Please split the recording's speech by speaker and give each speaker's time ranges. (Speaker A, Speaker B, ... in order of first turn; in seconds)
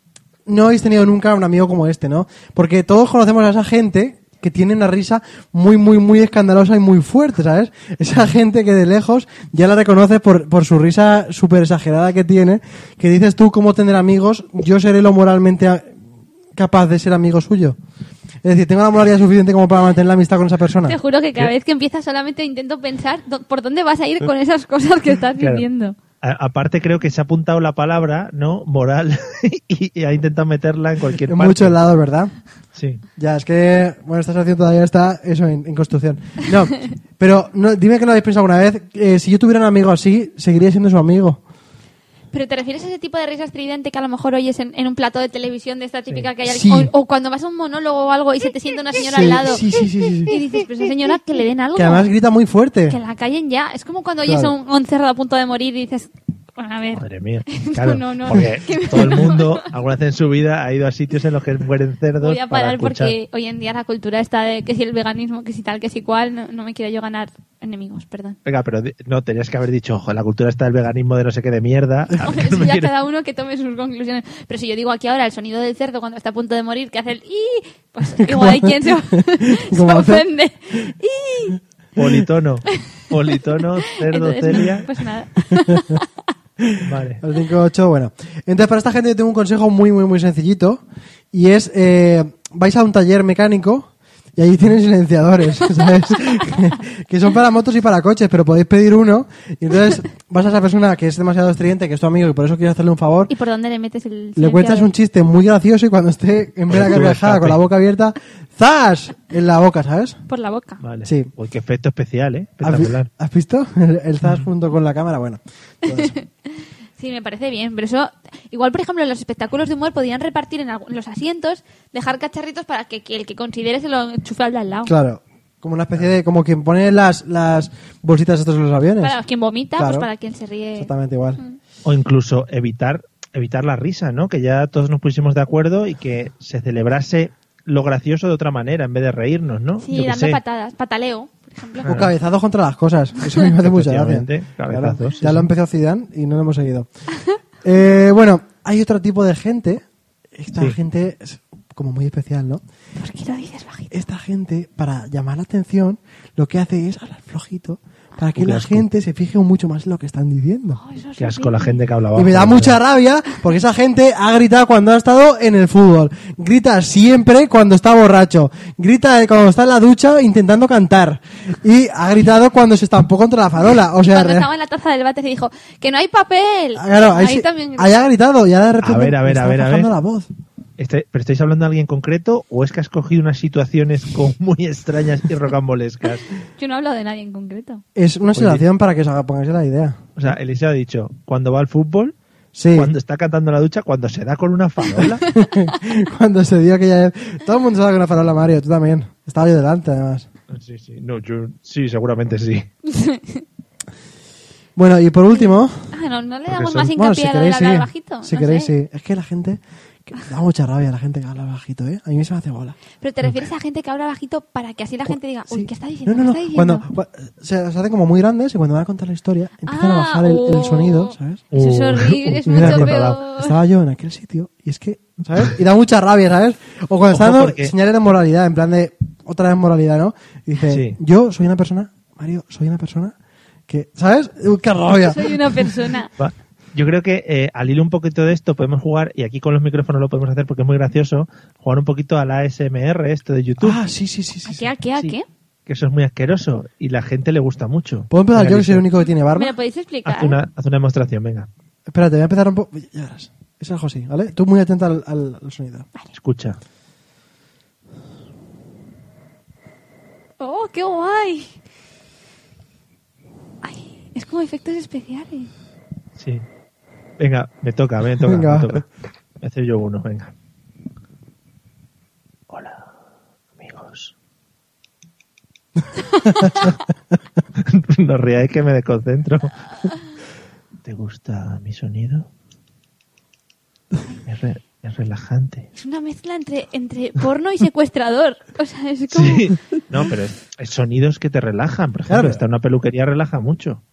Speaker A: 0.5-16.0, 16.6-17.8, 18.4-21.0, 31.3-32.3, 33.2-41.4, 46.4-46.9, 49.0-50.4, 51.8-53.0, 54.2-54.5, 78.2-80.2, 85.5-86.0, 86.6-103.3, 104.4-110.2, 111.0-111.3, 112.6-116.2, 124.9-129.2, 129.8-130.1, 130.8-131.4, 141.9-146.9, 147.6-152.6, 153.9-160.8, 162.2-174.5, 176.8-180.3, 188.0-190.0, 192.5-192.9, 195.3-200.3, 204.8-205.9, 206.9-212.8, 215.5-221.4, 222.5-233.2, 233.7-235.8, 243.6-244.7, 248.1-249.5, 251.9-255.9, 268.2-268.8, 292.1-292.4
Speaker B: 20.8-25.9, 42.3-49.7, 50.2-52.1, 52.9-59.7, 62.2-68.4, 72.1-81.6, 83.9-86.1, 103.3-104.9, 110.3-110.8, 115.9-116.3, 117.0-124.9, 129.0-131.6, 139.8-141.9, 153.0-153.9, 160.8-161.8, 174.1-177.9, 186.6-187.8, 195.2-195.5, 202.8-203.4, 205.3-208.7, 213.0-216.8, 219.7-223.6, 235.0-236.1, 244.4-245.2, 249.2-250.4, 260.4-261.5, 263.6-265.5, 285.8-289.5
Speaker C: 25.4-25.7, 26.2-31.8, 32.8-33.0, 56.9-63.1, 68.5-72.9, 82.0-84.9, 86.8-87.2, 106.7-107.6, 110.8-113.1, 131.8-140.4, 141.8-142.1, 143.6-145.5, 158.4-158.9, 161.2-162.8, 178.8-179.9, 180.8-186.3, 188.3-188.6, 190.2-192.2, 192.7-195.2, 200.5-202.7, 206.5-206.9, 221.5-223.2, 227.1-227.7, 230.7-231.0, 236.2-243.8, 245.7-248.9, 250.1-251.5, 256.1-256.6, 266.2-266.4, 267.2-268.9, 269.4-270.3, 272.5-272.9, 273.6-274.1, 277.6-279.6, 280.9-282.3, 284.3-285.7, 289.1-293.8